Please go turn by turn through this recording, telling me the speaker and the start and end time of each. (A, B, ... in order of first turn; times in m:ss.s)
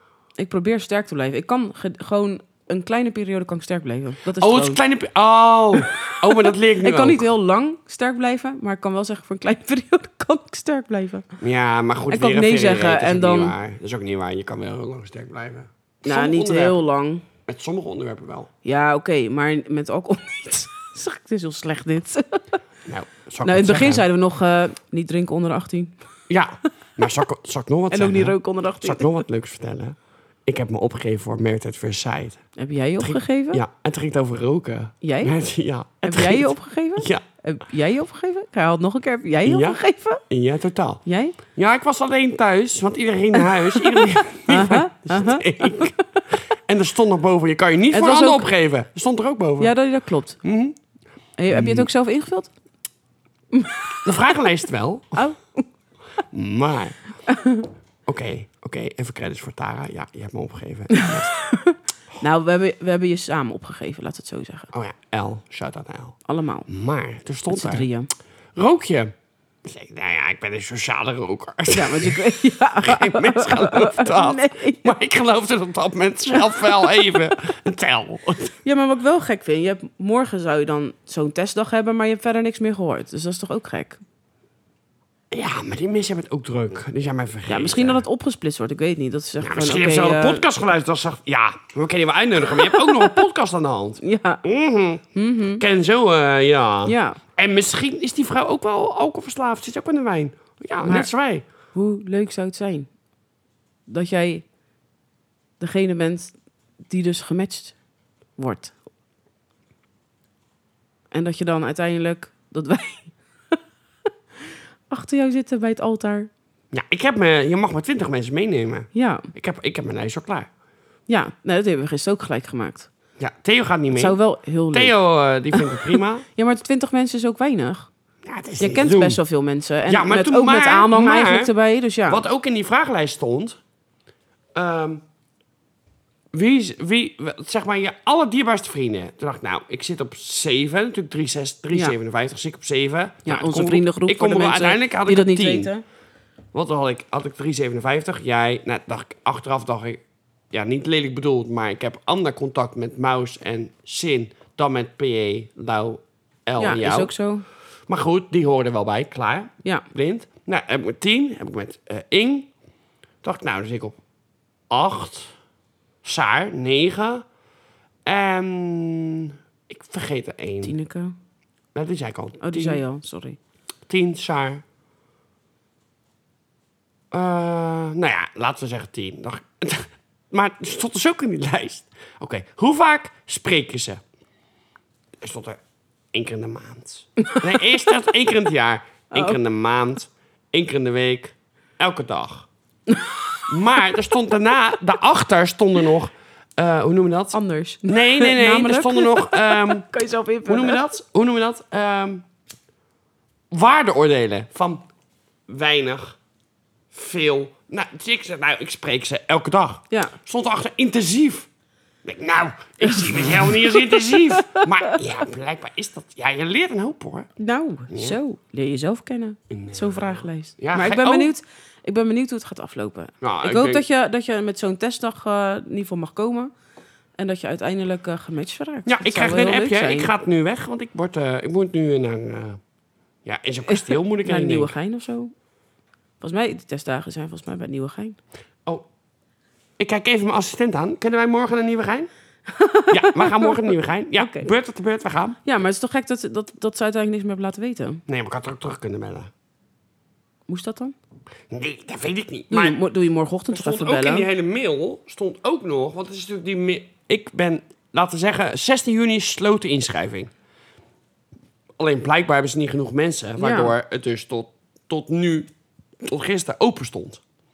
0:00.4-0:04.8 A
0:04.4-0:07.2 B
0:05.8-0:11.3 A
0:11.4-0:16.8 B
0:12.1-0:13.6 A
0:16.0-0:17.3 A
0:17.5-0:18.5 B
0:18.6-0:22.5 A
0:22.9-0:24.0 B
0:23.4-0:26.0 A
0:26.3-0:32.4 B
0:27.9-0:29.1 A
0:32.6-0:33.6 A
0:33.0-0:37.2 B
0:35.0-0:35.3 A
0:36.0-0:40.2 A
0:39.5-0:46.0 B
0:41.1-0:41.4 A
0:43.8-0:46.2 A
0:46.7-0:49.7 B
0:47.9-0:48.5 A
0:49.6-0:50.4 A
0:50.4-0:50.8 B
0:51.4-0:52.5 A
0:51.5-0:51.9 B
0:53.5-0:53.8 A
0:54.0-0:55.2 B
0:55.2-0:55.7 A
0:56.3-0:57.0 B
0:57.3-0:57.7 A
0:58.1-1:01.4 B
1:01.0-1:04.7 A
1:04.7-1:07.9 B
1:06.3-1:06.7 A
1:07.5-1:08.1 A
1:08.6-1:09.1 B
1:09.6-1:18.6 B
1:11.7-1:14.9 A
1:18.6-1:24.0 A
1:25.3-1:28.0 B
1:27.5-1:30.4 A
1:29.4-1:41.4 B
1:32.5-1:33.2 A
1:34.0-1:34.4 A
1:35.1-1:35.6 A
1:36.9-1:37.2 A
1:40.8-1:41.1 A
1:41.7-1:42.9 A
1:43.9-1:44.4 A
1:45.6-1:47.8 A
1:48.4-1:48.8 A
1:51.1-1:53.6 A
1:54.9-1:56.3 A
1:56.7-2:00.5 B
1:58.9-1:59.3 A
2:01.1-2:02.9 A
2:03.2-2:04.2 B
2:03.9-2:05.0 A
2:04.7-2:06.3 B
2:05.5-2:07.9 A
2:08.2-2:09.2 B
2:08.6-2:12.2 A
2:09.9-2:11.5 B
2:12.1-2:13.6 B
2:14.6-2:15.0 B
2:16.3-2:25.7 B
2:23.3-2:25.8 A
2:26.5-2:37.1 B
2:36.6-2:37.5 A
2:37.9-2:42.5 B
2:43.2-2:44.0 B
2:44.7-2:45.3 B
2:46.0-2:47.2 B
2:48.1-2:50.8 B
2:50.6-2:51.2 A
2:51.8-2:52.8 B
2:52.4-2:53.4 A
2:53.9-2:54.6 B
2:57.1-3:04.0 B
3:05.2-3:05.6 B
3:06.1-3:12.5 B
3:09.1-3:09.4 A
3:13.5-3:19.9 B
3:17.3-3:20.8 A
3:20.5-3:22.2 B
3:23.5-3:24.8 B
3:25.5-3:26.2 B
3:26.9-3:31.5 B
3:32.0-3:37.3 B
3:33.7-3:35.0 A
3:37.4-3:46.5 A
3:37.9-3:38.2 B
3:39.5-3:41.3 B
3:43.2-3:43.8 B
3:47.2-3:50.1 A
3:48.9-3:52.6 B
3:53.2-3:54.7 B
3:53.7-3:55.3 A
3:56.2-3:58.2 A
3:59.8-4:02.1 B
4:02.5-4:04.5 A
4:02.9-4:05.4 B
4:05.4-4:08.0 A
4:08.1-4:09.3 B
4:10.5-4:11.0 A
4:11.5-4:12.8 B
4:12.5-4:14.3 A
4:13.5-4:20.3 B
4:21.8-4:25.5 B
4:23.4-4:23.8 A
4:26.0-4:27.2 B